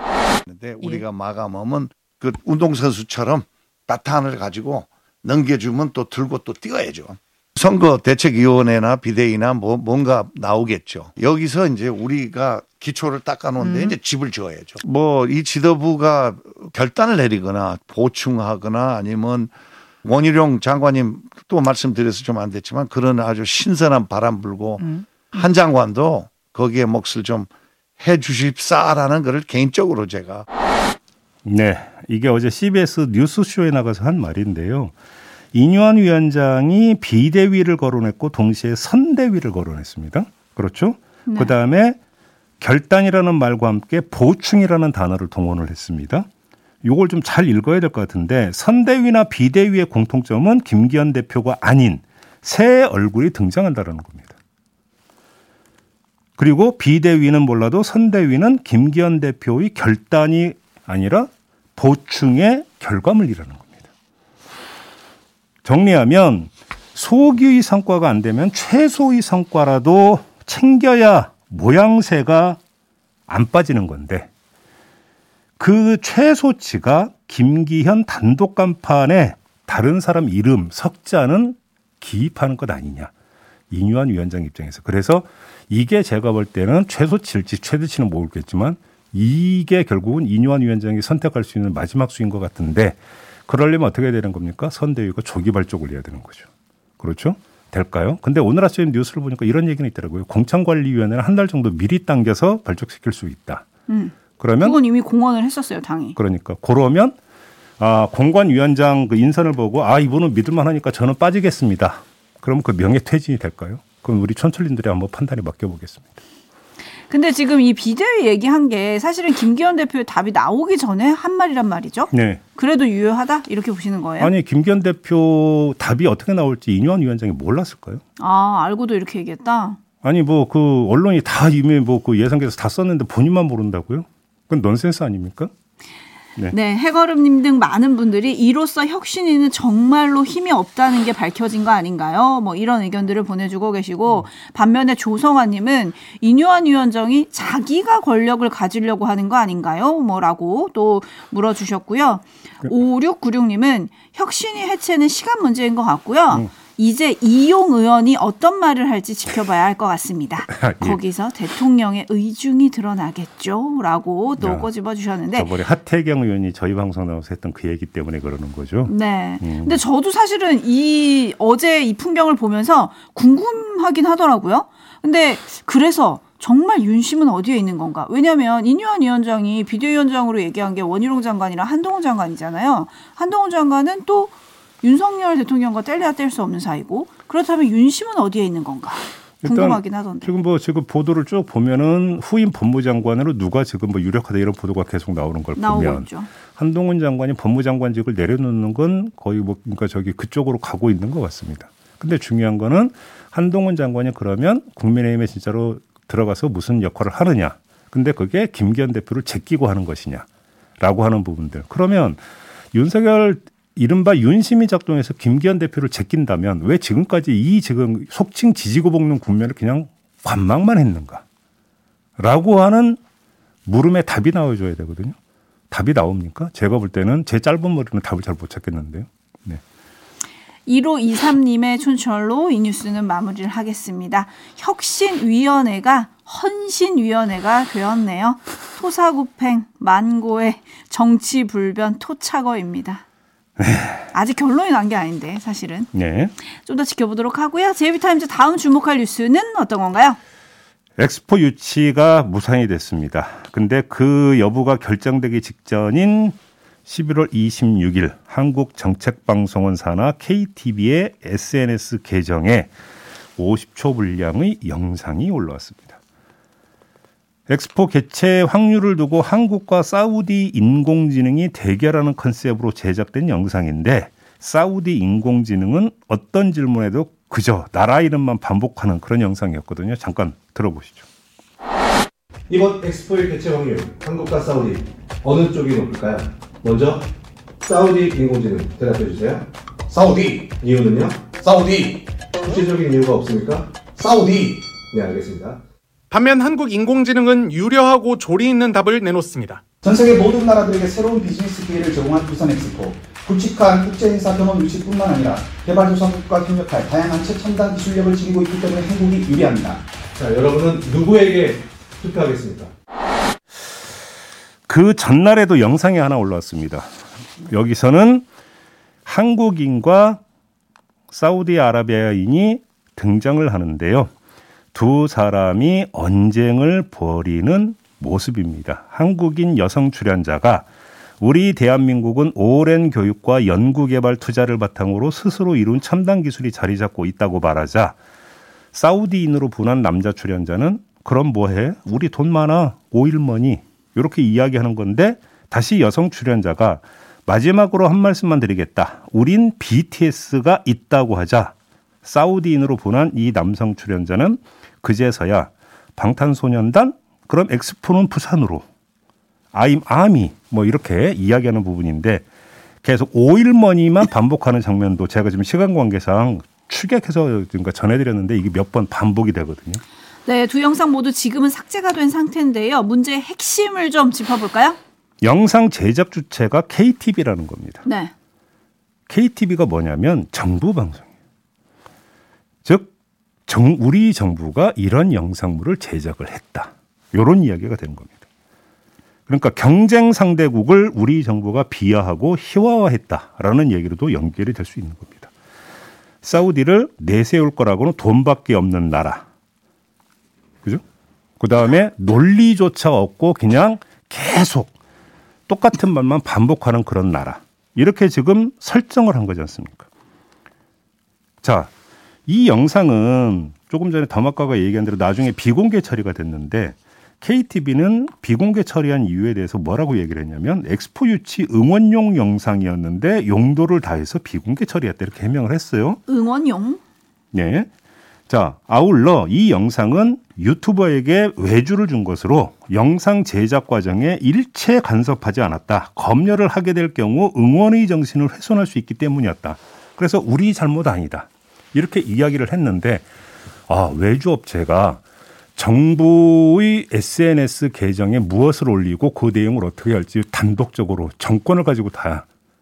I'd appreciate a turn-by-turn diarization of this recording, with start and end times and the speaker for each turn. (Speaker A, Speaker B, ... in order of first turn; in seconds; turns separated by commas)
Speaker A: 0.5-19.5, Speaker A: 20.0-27.5, Speaker A: 28.0-30.4, Speaker B: 31.4-34.9, Speaker B: 35.5-42.0, Speaker C: 41.3-41.5, Speaker B: 42.6-46.3, Speaker B: 46.8-54.3, Speaker B: 56.4-63.9, Speaker B: 65.6-72.6, Speaker B: 73.3-74.3, Speaker B: 75.6-83.1, Speaker B: 83.7-96.5, Speaker B: 97.0-103.7, Speaker C: 103.9-106.2, Speaker B: 104.4-104.8, Speaker B: 106.2-107.2, Speaker B: 107.8-116.2, Speaker C: 117.1-124.3, Speaker B: 122.1-122.4, Speaker B: 124.2-128.0, Speaker C: 128.2-129.8, Speaker B: 130.0-135.5, Speaker C: 136.5-165.5, Speaker B: 160.5-161.0, Speaker B: 164.4-164.7, Speaker B: 165.3-169.8, Speaker C: 168.9-190.3, Speaker B: 189.4-210.2, Speaker C: 195.6-196.3, Speaker B: 210.8-221.2, Speaker B: 222.2-223.0, Speaker B: 223.7-225.1, Speaker B: 225.7-229.6, Speaker C: 230.7-243.0, Speaker B: 243.6-244.1, Speaker C: 244.1-245.9, Speaker B: 245.9-246.3, Speaker C: 246.6-250.2, Speaker B: 251.0-262.7, Speaker B: 263.4-266.0, Speaker B: 267.5-281.0, Speaker D: 282.5-287.1, Speaker D: 287.6-295.6, Speaker E: 296.1-299.6, Speaker F: 299.8-309.8, Speaker D: 310.1-312.7, Speaker B: 314.7-318.2, Speaker B: 319.1-320.2, Speaker B: 321.1-324.1, Speaker B: 324.7-330.7, Speaker B: 331.2-337.9, Speaker B: 338.7-351.5, Speaker B: 352.0-358.6, Speaker B: 359.5-362.2, Speaker B: 362.8-369.8, Speaker C: 370.2-374.8, Speaker B: 375.2-377.8, Speaker C: 377.8-378.1, Speaker B: 379.1-381.1, Speaker B: 382.6-382.9, Speaker B: 383.5-388.2, Speaker B: 389.3-395.3, Speaker B: 396.2-399.2, Speaker B: 401.4-404.7, Speaker B: 405.5-409.9, Speaker B: 411.4-411.7, Speaker B: 412.3-426.0, Speaker C: 426.1-426.8, Speaker B: 427.3-427.7, Speaker B: 428.3-443.1, Speaker B: 443.7-445.0, Speaker B: 445.6-452.2